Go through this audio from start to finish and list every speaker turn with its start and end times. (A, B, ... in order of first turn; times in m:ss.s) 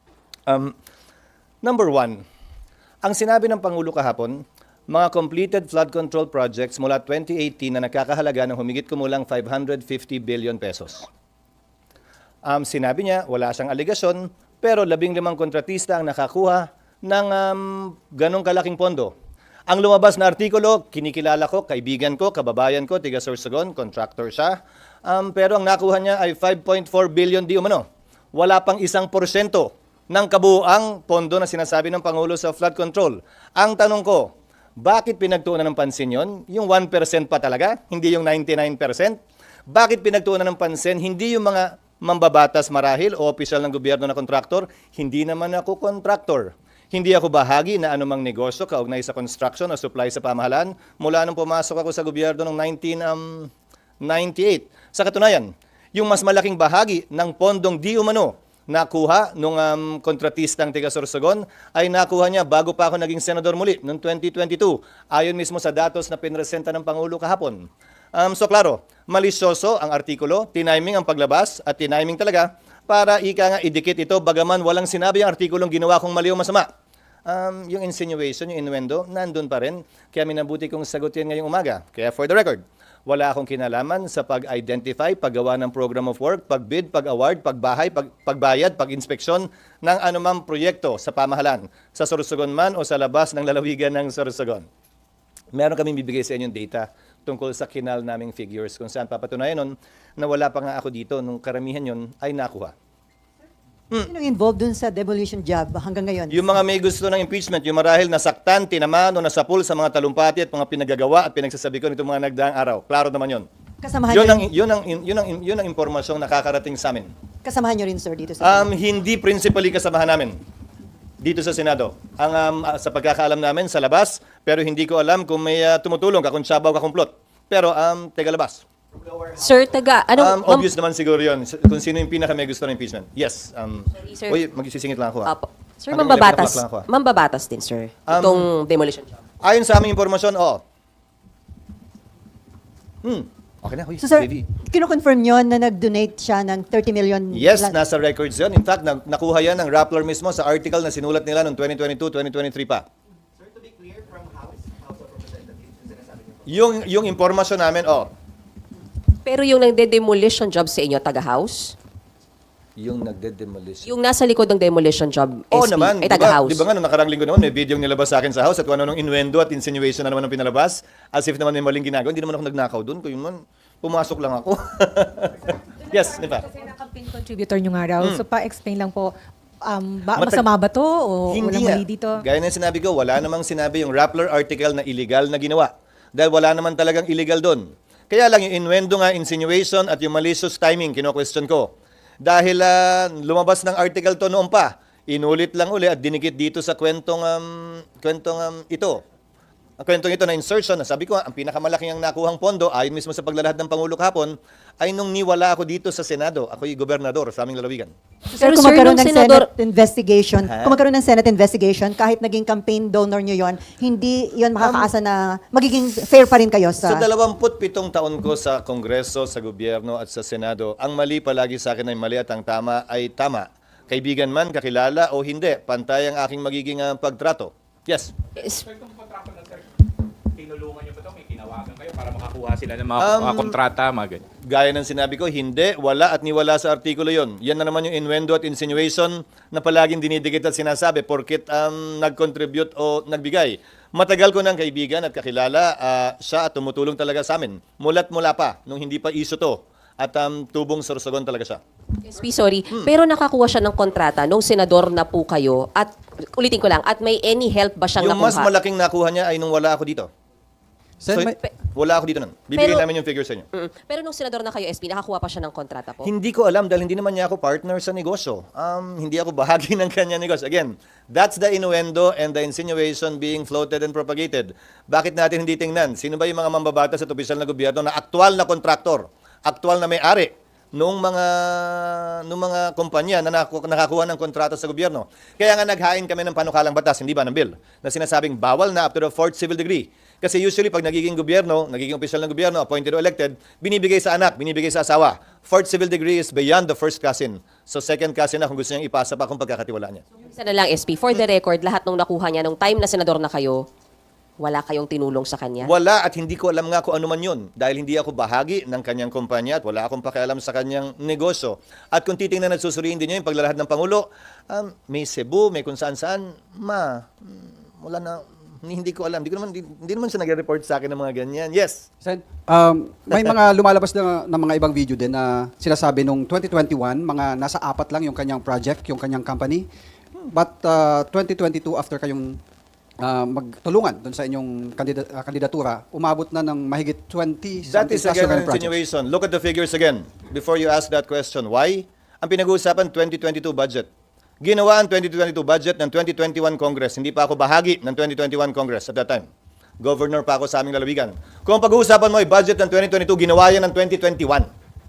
0:00.5-0:00.7 A
0:01.6-0:02.2 A
0:03.0-0:11.1 A
0:12.5-0:19.1 A
0:19.7-0:39.2 A
0:39.7-0:53.5 A
0:54.0-1:16.7 A
1:17.3-1:34.7 A
1:35.5-1:42.7 A
1:44.1-1:46.6 B
1:46.3-1:53.5 A
1:53.8-1:54.5 B
1:54.1-1:57.1 A
1:57.4-1:58.7 B
1:58.4-2:00.4 A
2:01.2-2:08.6 A
2:09.4-2:10.7 C
2:10.1-2:15.4 A
2:14.0-2:14.4 C
2:15.3-2:19.1 C
2:15.9-2:16.9 A
2:18.1-2:18.5 A
2:19.4-2:20.6 A
2:23.0-2:24.6 A
2:24.0-2:27.8 B
2:27.3-2:32.9 A
2:36.5-2:38.1 A
2:39.3-2:41.8 C
2:42.8-2:43.9 A
2:43.9-2:46.7 C
2:45.5-2:56.5 A
2:56.0-2:59.1 D
2:58.0-2:58.2 A
2:59.6-3:02.2 D
3:00.2-3:00.5 A
3:01.3-3:19.0 A
3:19.8-3:27.9 A
3:28.3-3:37.1 B
3:28.4-3:29.5 C
3:30.4-3:30.8 A
3:34.6-3:34.9 A
3:36.8-3:48.1 A
3:48.4-3:48.6 C
3:48.7-3:49.6 E
3:50.4-3:54.2 E
3:53.0-3:53.6 A
3:54.4-4:11.6 A
4:12.1-4:18.5 C
4:18.0-4:20.1 A
4:21.0-4:21.4 F
4:21.1-4:23.5 A
4:22.5-4:22.9 C
4:23.5-4:26.1 C
4:26.0-5:00.0 A
5:00.3-5:03.7 C
5:04.4-5:05.7 C
5:05.6-5:21.9 A
5:22.0-5:29.7 F
5:30.3-5:32.4 F
5:33.0-5:38.8 F
5:37.7-5:43.9 A
5:44.4-5:49.3 A
5:49.8-5:54.5 A